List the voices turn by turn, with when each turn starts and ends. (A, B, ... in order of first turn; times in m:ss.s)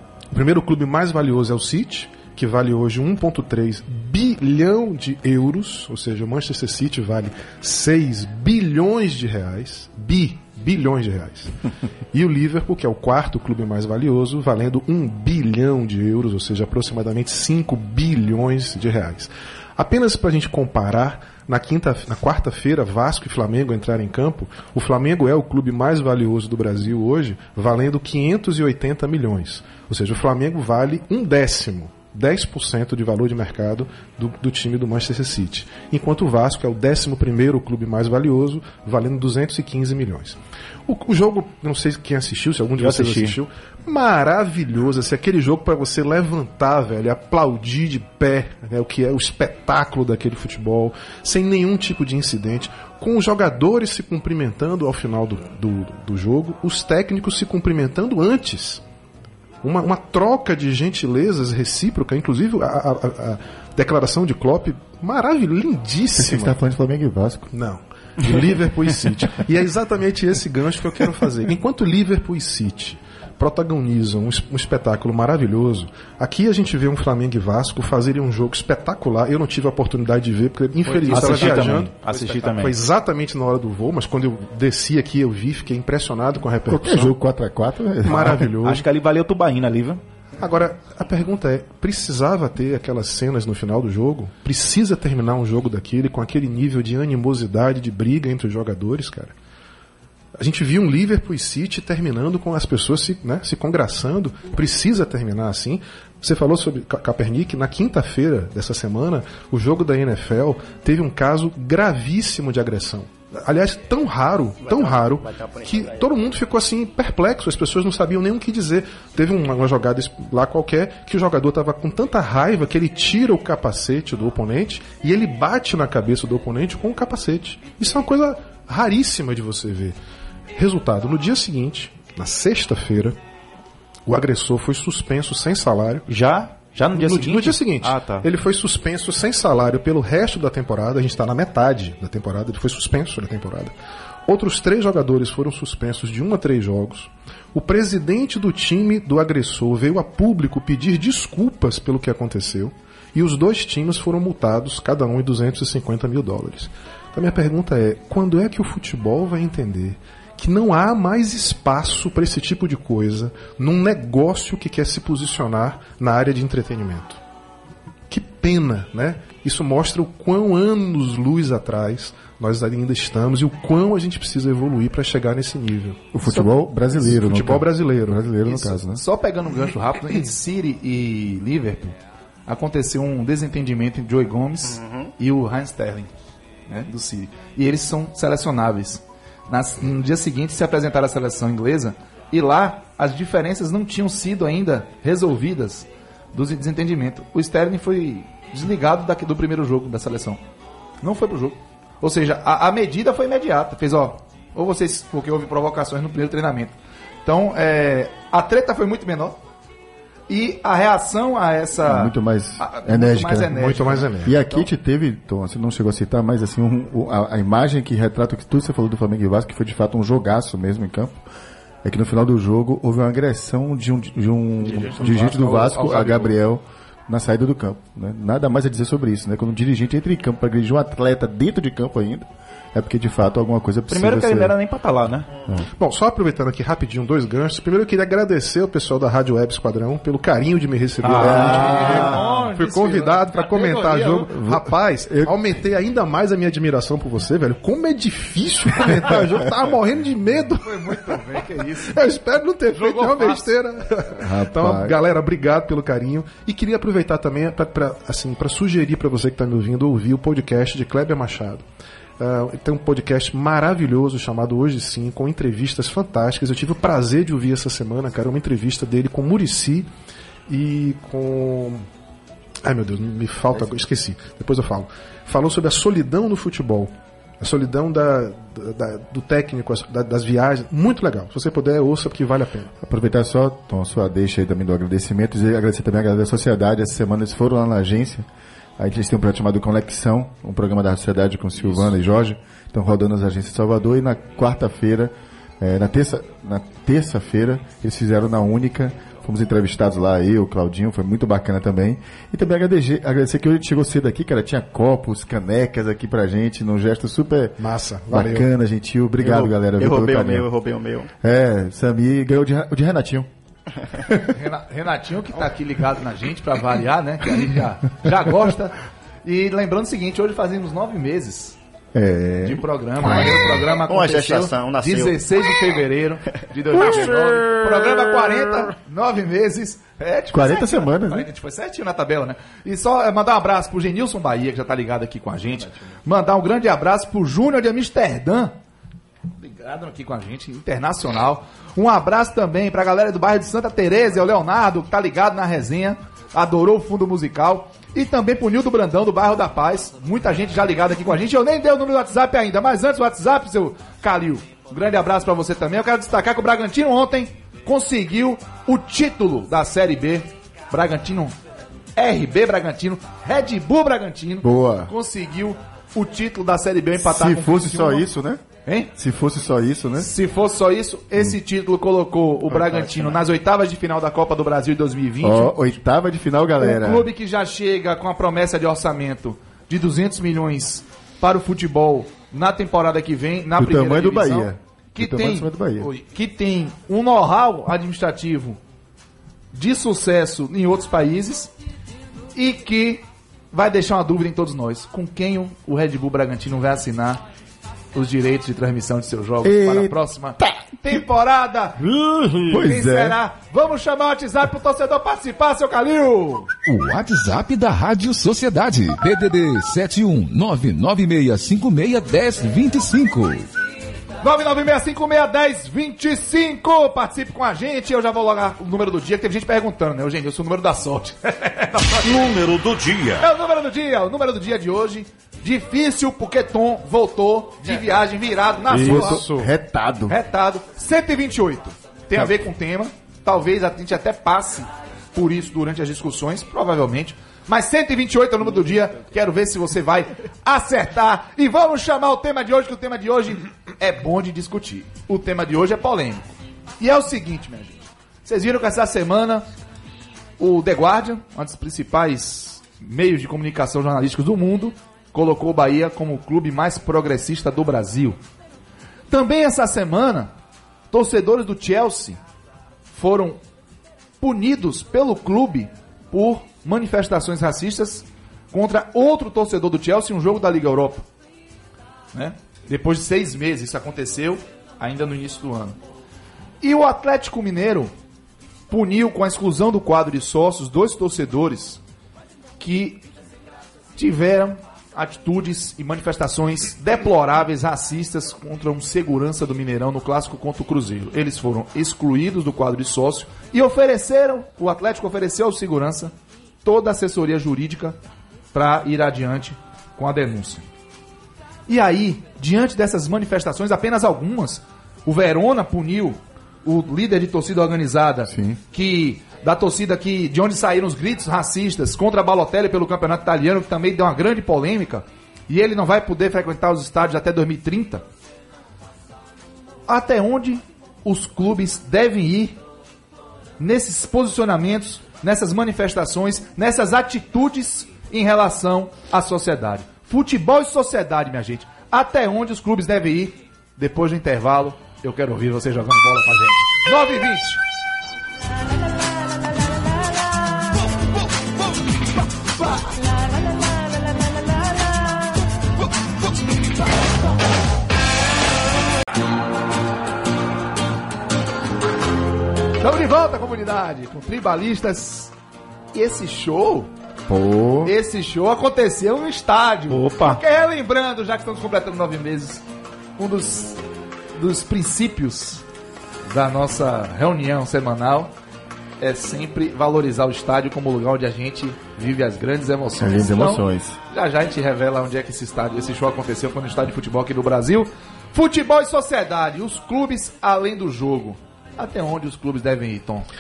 0:00.3-0:11.6 A
0:12.1-0:58.8 A
0:42.8-0:43.4 B
0:59.6-1:06.6 A
1:06.1-1:07.5 C
1:07.5-1:27.1 A
1:20.9-1:21.8 D
1:21.1-1:22.8 B
1:26.6-1:28.5 C
1:28.0-1:28.8 A
1:28.1-1:30.0 B
1:30.4-1:39.3 A
1:40.4-2:10.0 A
1:54.6-1:56.1 E
2:10.5-2:13.2 A
2:14.1-2:16.1 A
2:16.1-2:18.3 B
2:16.9-2:23.7 A
2:24.2-2:47.2 A
2:48.1-2:56.4 A
2:56.1-2:59.0 C
2:57.0-2:58.2 A
2:58.4-3:02.0 D
3:02.5-3:06.1 D
3:04.6-3:05.1 E
3:06.7-3:20.4 D
3:21.0-3:29.4 D
3:30.3-3:34.6 D
3:31.8-3:33.6 C
3:33.5-3:34.4 A
3:34.2-3:41.2 C
3:41.8-3:54.5 C
3:44.7-3:46.1 D
3:45.1-3:46.1 B
3:53.9-3:55.3 B
3:55.8-4:21.6 A
4:01.0-4:02.1 B
4:01.1-4:04.3 D
4:01.2-4:02.2 C
4:04.3-4:05.3 C
4:10.6-4:12.0 D
4:12.7-4:13.5 D
4:14.2-4:15.0 C
4:22.2-4:29.9 A
4:30.5-4:31.9 A
4:32.6-4:42.7 A
4:42.8-4:48.2 C
4:48.8-5:07.6 C
5:07.6-5:08.5 A
5:08.1-5:10.5 C
5:09.2-5:11.1 E
5:11.2-5:13.3 C
5:14.3-5:21.6 D
5:21.9-5:23.6 C
5:22.4-5:38.5 D
5:23.1-5:25.2 E
5:26.8-5:28.0 C
5:30.3-5:31.3 C
5:39.4-6:01.4 D
6:02.0-6:08.1 D
6:04.4-6:04.9 C
6:07.0-6:08.4 C
6:08.6-6:08.9 D
6:09.0-6:10.1 C
6:10.0-6:15.8 D
6:15.2-6:17.1 C
6:16.6-6:28.6 D
6:23.6-6:25.9 C
6:29.5-6:31.5 D
6:32.4-6:37.2 D
6:37.9-6:41.9 D
6:39.4-6:40.6 C
6:41.9-6:43.2 C
6:42.5-6:46.5 D
6:46.6-6:53.5 F
6:54.2-7:02.3 D
7:02.1-7:03.1 B
7:02.2-7:03.1 F
7:03.2-7:09.2 D
7:08.7-7:10.2 C
7:08.8-7:09.5 A
7:10.1-7:29.5 D
7:30.4-7:38.2 D
7:39.1-7:40.3 D
7:40.9-7:42.2 D
7:42.9-7:43.4 D
7:44.2-7:51.0 D
7:52.1-7:55.8 D
7:56.6-7:57.9 D
7:58.7-8:01.8 D
8:02.6-8:03.0 D
8:04.0-8:16.1 D
8:16.6-8:18.0 D
8:18.5-8:20.6 D
8:21.7-8:38.0 D
8:28.3-8:28.6 C
8:39.9-8:42.6 D
8:43.6-8:57.6 D
9:12.8-9:15.3 D
9:15.9-9:16.9 D
9:17.3-9:17.9 C
9:17.8-9:22.6 D
9:19.9-9:20.4 B
9:23.2-9:23.8 D
9:24.4-9:25.6 D
9:26.3-9:28.3 D
9:29.0-9:43.3 D
9:33.0-9:34.0 C